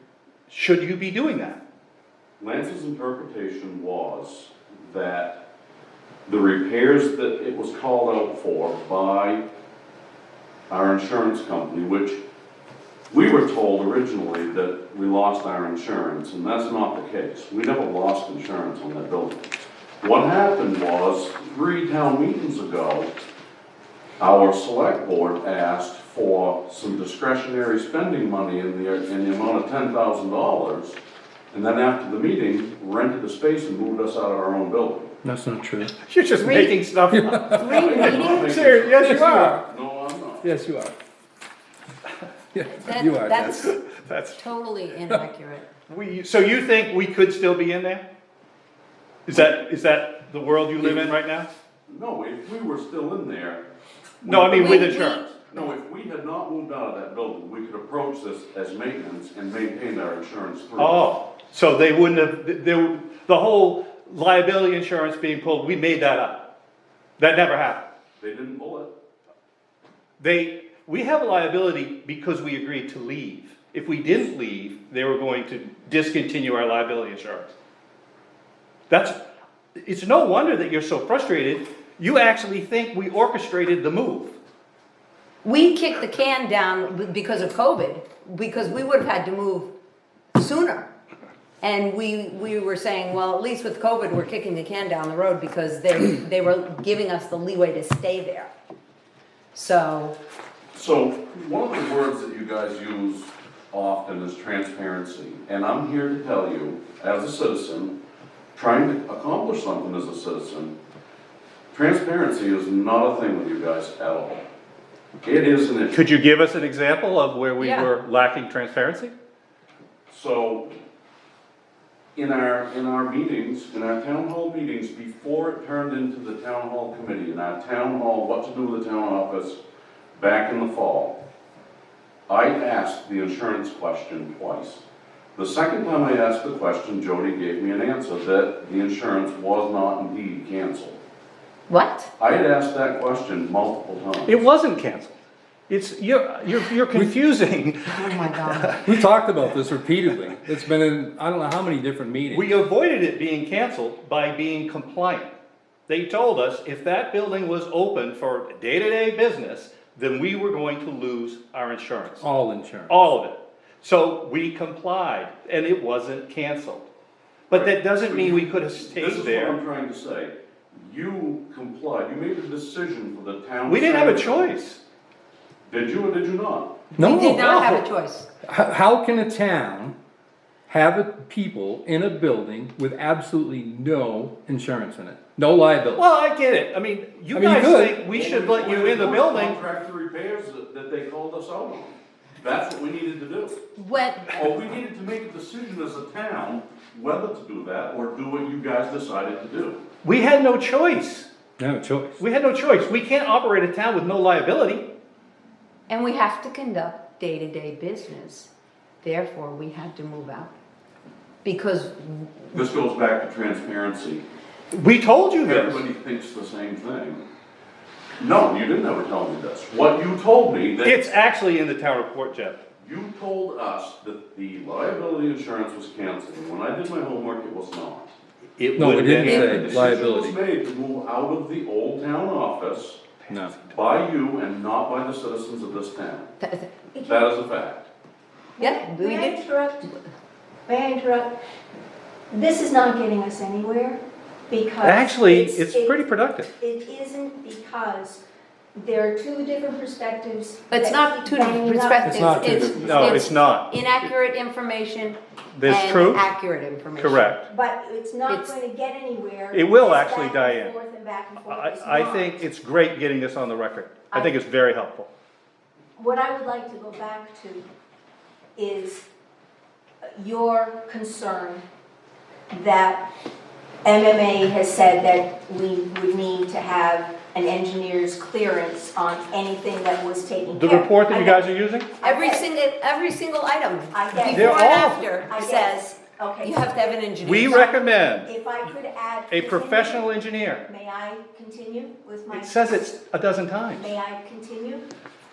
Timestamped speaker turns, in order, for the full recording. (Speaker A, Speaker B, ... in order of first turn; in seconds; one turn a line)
Speaker A: 0.5-1.6
Speaker B: 2.4-5.4
Speaker B: 6.3-9.4
Speaker B: 10.7-12.2
Speaker B: 13.1-23.1
Speaker B: 24.2-31.0
Speaker B: 31.5-35.1
Speaker C: 35.2-36.0
Speaker A: 36.0-39.6
Speaker D: 36.4-36.8
Speaker C: 37.1-37.8
Speaker D: 37.5-38.7
Speaker B: 37.6-40.5
Speaker C: 39.0-39.6
Speaker C: 40.4-41.0
Speaker C: 42.5-43.8
Speaker D: 42.8-43.8
Speaker A: 43.9-44.4
Speaker D: 44.4-45.7
Speaker A: 45.9-48.0
Speaker A: 49.3-51.5
Speaker B: 50.8-51.1
Speaker B: 51.9-53.6
Speaker A: 54.2-55.2
Speaker B: 54.2-61.1
Speaker D: 54.5-55.7
Speaker A: 60.8-66.4
Speaker A: 67.2-67.8
Speaker B: 68.2-68.9
Speaker A: 70.2-77.5
Speaker A: 78.9-79.2
Speaker A: 79.8-84.3
Speaker D: 85.4-89.7
Speaker D: 90.4-90.9
Speaker D: 91.6-98.5
Speaker D: 99.5-100.2
Speaker B: 100.7-108.0
Speaker B: 108.5-110.8
Speaker B: 111.7-114.4
Speaker B: 115.2-116.0
Speaker A: 115.9-119.1
Speaker D: 117.6-117.9
Speaker B: 120.1-120.8
Speaker B: 122.2-129.6
Speaker B: 130.2-131.2
Speaker B: 132.3-134.8
Speaker B: 135.4-141.0
Speaker D: 141.7-142.1
Speaker B: 142.2-144.4
Speaker A: 144.3-145.2
Speaker A: 145.7-148.9
Speaker D: 147.9-148.8
Speaker C: 148.8-152.5
Speaker A: 152.3-155.3
Speaker A: 155.9-162.3
Speaker C: 162.2-163.1
Speaker A: 162.9-166.9
Speaker A: 167.5-169.6
Speaker B: 167.5-174.5
Speaker A: 173.7-174.8
Speaker B: 175.7-176.8
Speaker C: 177.0-177.6
Speaker D: 177.0-178.3
Speaker A: 177.4-177.8
Speaker C: 178.4-180.0
Speaker C: 180.7-186.0
Speaker A: 186.0-189.6
Speaker C: 187.3-188.0
Speaker B: 188.1-193.6
Speaker D: 193.8-194.5
Speaker B: 194.3-199.8
Speaker A: 200.0-201.3
Speaker C: 201.6-202.2
Speaker A: 202.2-204.8
Speaker D: 205.9-208.5
Speaker D: 209.0-210.5
Speaker D: 211.4-212.6
Speaker B: 212.5-214.3
Speaker A: 214.7-215.8
Speaker B: 215.4-217.2
Speaker B: 218.2-221.0
Speaker A: 220.8-222.6
Speaker B: 222.8-228.1
Speaker A: 228.6-230.2
Speaker C: 228.8-230.3
Speaker B: 229.1-233.0
Speaker D: 229.2-229.6
Speaker C: 233.3-233.6
Speaker B: 233.6-236.3
Speaker D: 236.4-236.7
Speaker E: 236.9-237.3
Speaker B: 237.0-237.9
Speaker E: 238.6-239.9
Speaker D: 238.6-239.4
Speaker E: 240.7-241.3
Speaker E: 242.3-248.2
Speaker A: 244.8-246.5
Speaker E: 248.8-253.0
Speaker D: 250.7-257.4
Speaker C: 252.0-253.3
Speaker A: 252.8-253.7
Speaker A: 255.6-256.2
Speaker A: 257.0-257.4
Speaker E: 257.5-262.4
Speaker D: 258.3-258.6
Speaker A: 259.5-260.7
Speaker A: 261.4-265.1
Speaker E: 266.0-267.7
Speaker E: 268.6-269.1
Speaker E: 270.1-271.6
Speaker E: 272.5-273.1
Speaker E: 273.8-281.5
Speaker A: 280.5-281.9
Speaker E: 282.0-282.5
Speaker D: 282.0-287.7
Speaker E: 283.9-290.1
Speaker A: 284.2-285.1
Speaker A: 287.2-288.3
Speaker A: 289.3-290.6
Speaker E: 290.7-292.7
Speaker A: 292.3-293.9
Speaker E: 293.8-294.9